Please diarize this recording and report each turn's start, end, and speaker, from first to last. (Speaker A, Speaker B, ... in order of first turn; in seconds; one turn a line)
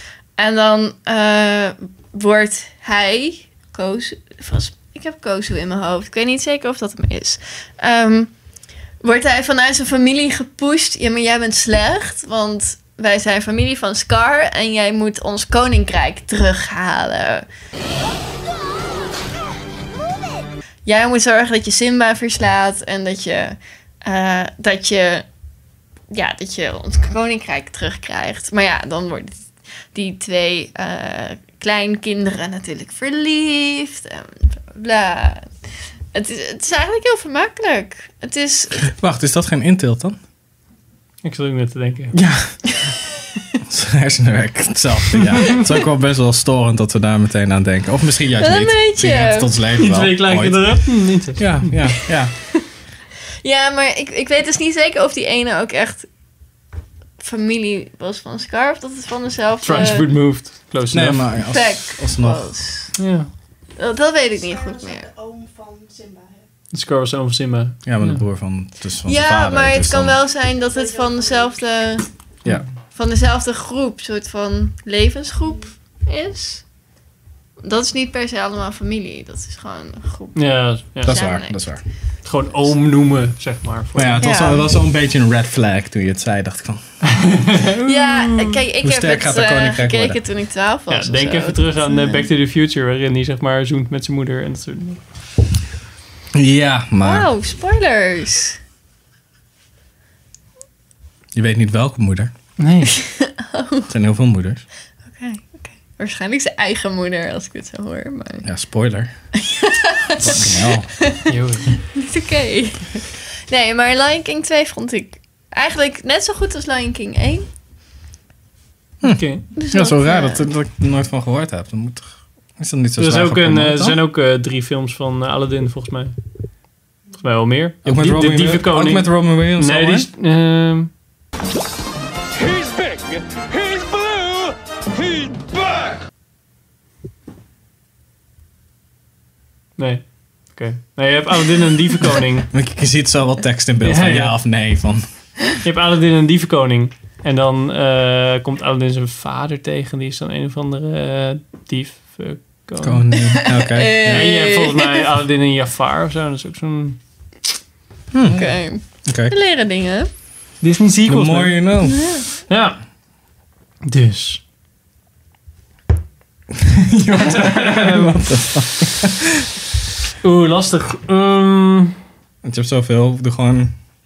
Speaker A: 0.4-8.3
Speaker A: 9.0-17.5
Speaker A: 20.9-25.2
Speaker A: 26.1-35.5
Speaker A: 36.1-38.9
Speaker B: 38.9-40.2
Speaker C: 41.2-42.2
Speaker B: 42.1-42.7
Speaker B: 43.6-52.3
Speaker A: 48.4-49.5
Speaker C: 49.8-51.8
Speaker A: 53.4-56.1
Speaker A: 57.2-60.1
Speaker C: 59.6-61.2
Speaker B: 60.9-62.5
Speaker A: 61.5-62.9
Speaker C: 63.0-63.3
Speaker A: 63.8-65.2
Speaker C: 66.7-68.2
Speaker B: 67.8-70.2
Speaker A: 69.1-72.1
Speaker A: 72.9-76.6
Speaker A: 77.6-81.6
Speaker C: 80.3-81.2
Speaker B: 81.0-81.8
Speaker C: 82.2-84.3
Speaker B: 84.0-86.8
Speaker A: 84.2-84.7
Speaker C: 87.1-88.6
Speaker A: 87.8-92.3
Speaker B: 88.8-90.2
Speaker C: 90.9-95.0
Speaker B: 96.3-97.3
Speaker A: 97.0-98.6
Speaker B: 101.3-102.3
Speaker C: 102.6-103.0
Speaker A: 102.9-103.9
Speaker B: 103.9-104.6
Speaker A: 105.2-108.5
Speaker B: 108.4-109.1
Speaker A: 109.4-111.2
Speaker B: 110.2-110.9
Speaker C: 111.3-111.8
Speaker A: 112.0-117.5
Speaker B: 119.0-124.0
Speaker C: 119.0-119.5
Speaker A: 119.6-120.5
Speaker C: 123.0-126.2
Speaker C: 127.2-130.9
Speaker B: 127.8-130.1
Speaker D: 132.4-135.6
Speaker C: 139.8-142.5
Speaker B: 142.5-145.0
Speaker C: 143.8-144.3
Speaker C: 145.6-153.0
Speaker B: 152.8-154.3
Speaker A: 153.3-155.1
Speaker C: 154.1-157.0
Speaker B: 158.1-158.5
Speaker A: 158.3-160.1
Speaker B: 159.1-159.3
Speaker C: 160.6-161.6
Speaker B: 161.1-162.0
Speaker A: 161.8-162.3
Speaker C: 162.5-162.8
Speaker C: 163.8-164.4
Speaker B: 166.5-169.5
Speaker C: 167.2-168.2
Speaker C: 170.2-172.0
Speaker B: 172.4-173.8